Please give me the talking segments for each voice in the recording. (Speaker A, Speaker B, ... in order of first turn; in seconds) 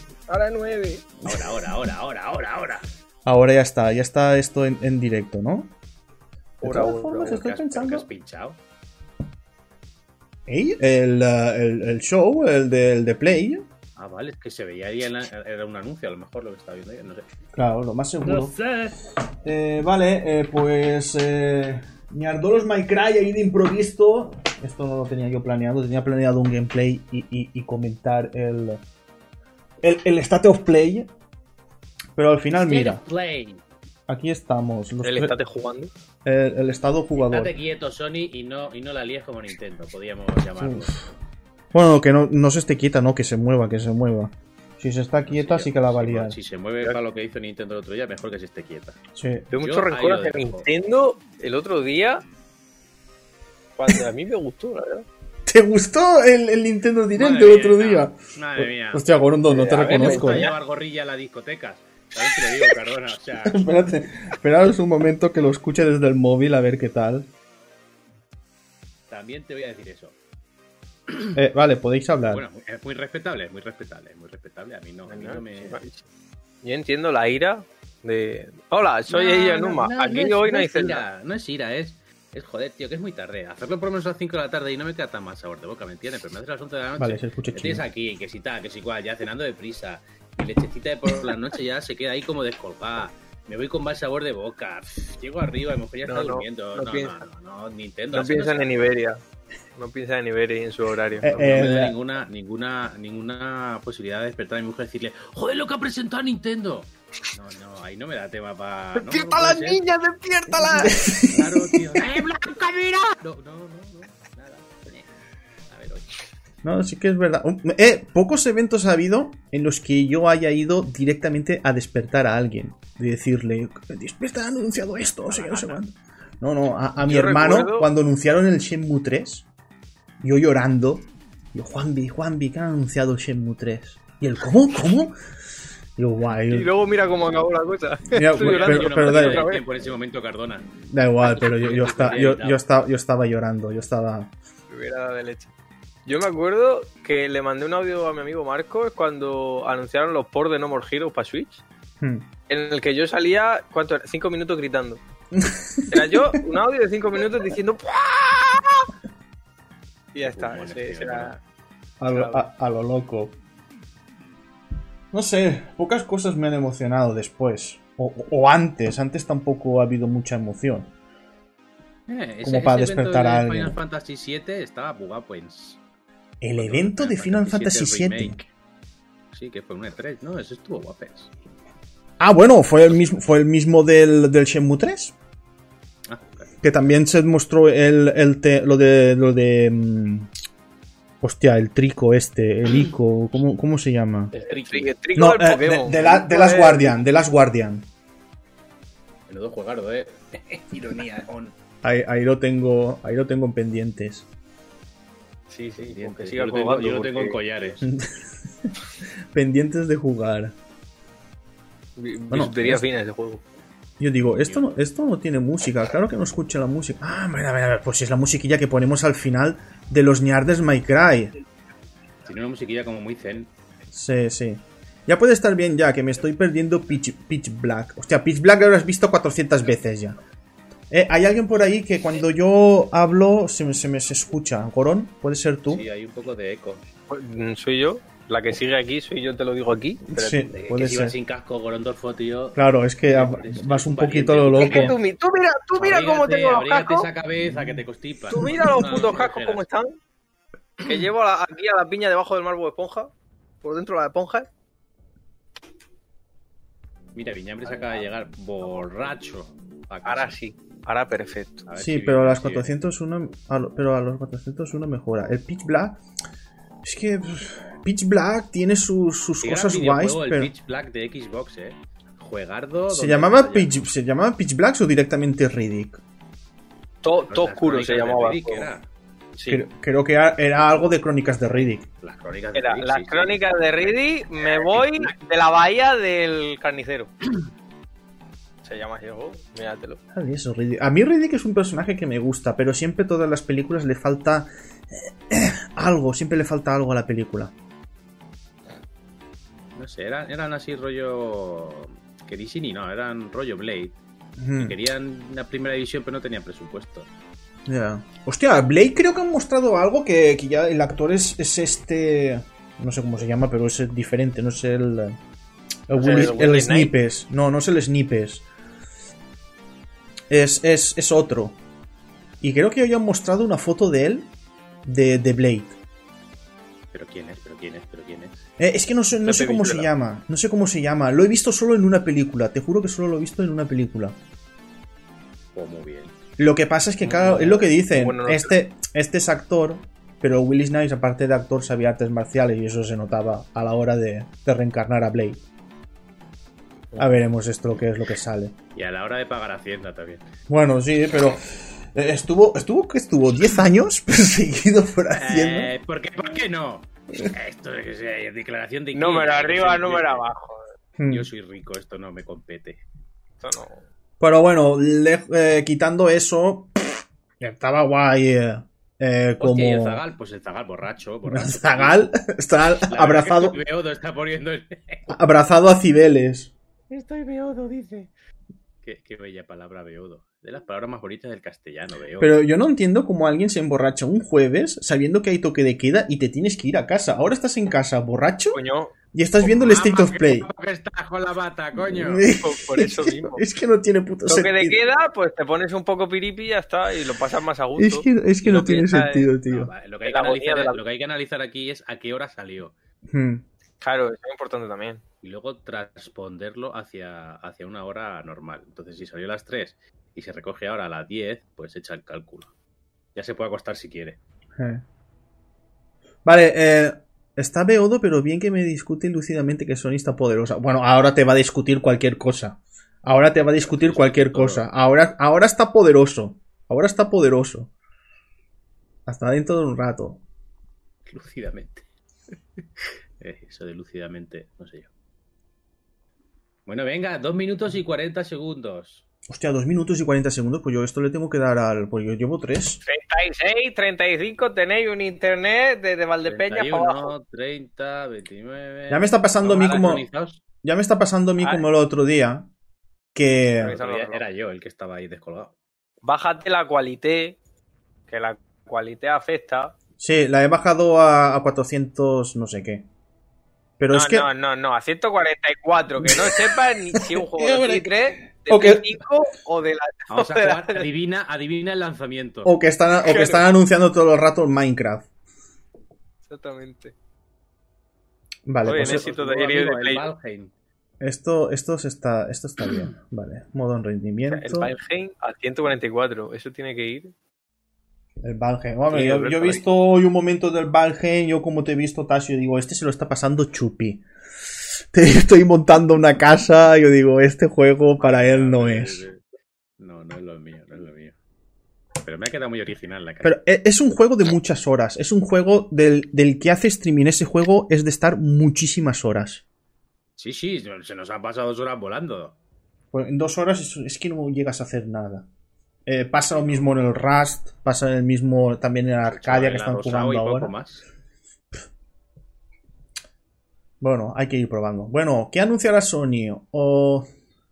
Speaker A: 0.3-1.0, 6.6-7.0, 35.0-35.9, 49.5-52.2, 53.8-55.0, 59.5-60.5, 75.1-76.0, 76.6-81.0, 96.1-97.2, 98.1-99.2, 99.8-101.3, 109.0-111.0, 127.0-127.9, 136.5-139.6, 144.7-145.5, 146.1-151.6, 152.5-155.0, 155.9-158.9, 160.1-161.3, 162.1-162.4, 194.5-196.9, 205.5-207.4, 212.0-213.4, 237.1-240.4, 244.6-247.1, 248.3-249.9, 250.8-253.1, 253.6-254.5, 260.0-261.6, 277.0-278.7, 279.4-279.6, 282.5-287.1, 288.6-290.0, 315.9-316.9, 329.2-329.9, 337.1-338.5, 358.9-360.6, 363.4-363.8, 388.5-388.9, 392.3-393.4, 394.3-399.3, 400.0-400.8, 403.8-405.0, 442.8-447.1, 453.6-454.2, 456.0-457.4, 458.1-459.7, 463.9-470.9, 473.0-473.4, 476.3-476.9, 478.6-480.1, 484.3-487.1, 488.9-489.6
Speaker B: 1.2-2.8, 6.6-8.6, 13.9-17.2, 18.2-18.9, 32.6-33.6, 37.2-41.0, 45.2-49.0, 49.6-50.7, 57.1-59.1, 59.7-63.7, 69.1-70.2, 71.1-71.3, 72.3-75.8, 79.1-98.7, 101.2-109.8, 111.1-115.1, 115.7-116.0, 125.3-125.8, 138.4-140.7, 141.2-142.6, 160.2-161.4, 172.1-175.8, 176.5-178.5, 179.3-181.3, 186.1-186.5, 194.3-194.9, 199.3-201.5, 205.8-207.8, 214.3-214.7, 222.2-223.5, 235.7-236.8, 240.5-245.0, 245.8-249.6, 257.1-260.3, 261.6-262.7, 269.4-273.7, 277.3-278.9, 282.0-285.2, 299.8-304.0, 304.6-307.1, 326.9-328.4, 335.5-336.1, 337.1-337.5, 348.7-350.3, 355.1-360.2, 361.1-362.8, 369.4-372.0, 372.9-375.1, 376.9-378.1, 378.8-382.3, 389.4-392.2, 399.4-402.7, 405.2-412.5, 413.1-414.2, 423.5-424.6, 431.1-431.8, 433.2-434.9, 436.6-439.0, 446.2-450.4, 453.6-455.5, 470.1-472.5, 478.7-480.5, 498.0-499.2, 499.8-501.1, 502.0-503.4, 510.2-512.3, 516.3-516.7, 519.0-520.8
Speaker C: 3.2-5.7, 6.6-8.1, 10.4-13.7, 17.5-18.6, 19.4-28.8, 29.8-31.1, 32.1-33.0, 34.1-35.3, 36.2-37.5, 40.6-41.0, 41.7-46.4, 49.1-49.5, 55.5-60.5, 63.4-67.3, 71.3-72.4, 87.0-87.8, 101.2-102.0, 110.5-111.8, 116.6-129.4, 130.2-135.1, 136.0-136.7, 138.1-139.5, 140.9-144.3, 152.0-152.2, 155.3-156.2, 162.0-163.3, 165.1-170.9, 172.4-173.7, 176.4-178.4, 182.2-185.1, 186.6-190.3, 191.2-194.3, 195.2-197.9, 201.8-204.2, 207.8-208.7, 209.3-210.5, 212.3-212.8, 214.0-221.3, 223.9-230.2, 230.9-235.8, 240.1-241.2, 242.6-245.0, 247.4-247.8, 261.8-266.0, 266.8-270.5, 272.9-276.0, 279.5-281.9, 290.1-297.5, 304.4-304.8, 307.7-315.2, 315.9-318.4, 320.3-321.6, 322.4-324.3, 324.9-325.8, 328.6-334.1, 336.4-345.4, 347.0-348.5, 350.5-355.7, 361.0-361.3, 364.2-366.7, 367.4-370.0, 371.2-373.6, 375.1-376.5, 382.2-388.6, 389.1-390.5, 391.8-394.8, 397.8-399.7, 403.1-403.4, 414.6-414.8, 416.2-427.7, 429.1-430.2, 439.3-442.8, 448.9-450.0, 450.6-452.5, 453.1-453.8, 460.0-462.9, 463.8-464.3, 466.0-466.5, 467.1-467.9, 468.5-468.9, 472.4-475.1, 478.4-479.0, 481.0-484.7, 488.2-494.0, 494.9-499.0, 503.2-509.4, 512.9-515.3, 515.9-520.5, 523.8-527.1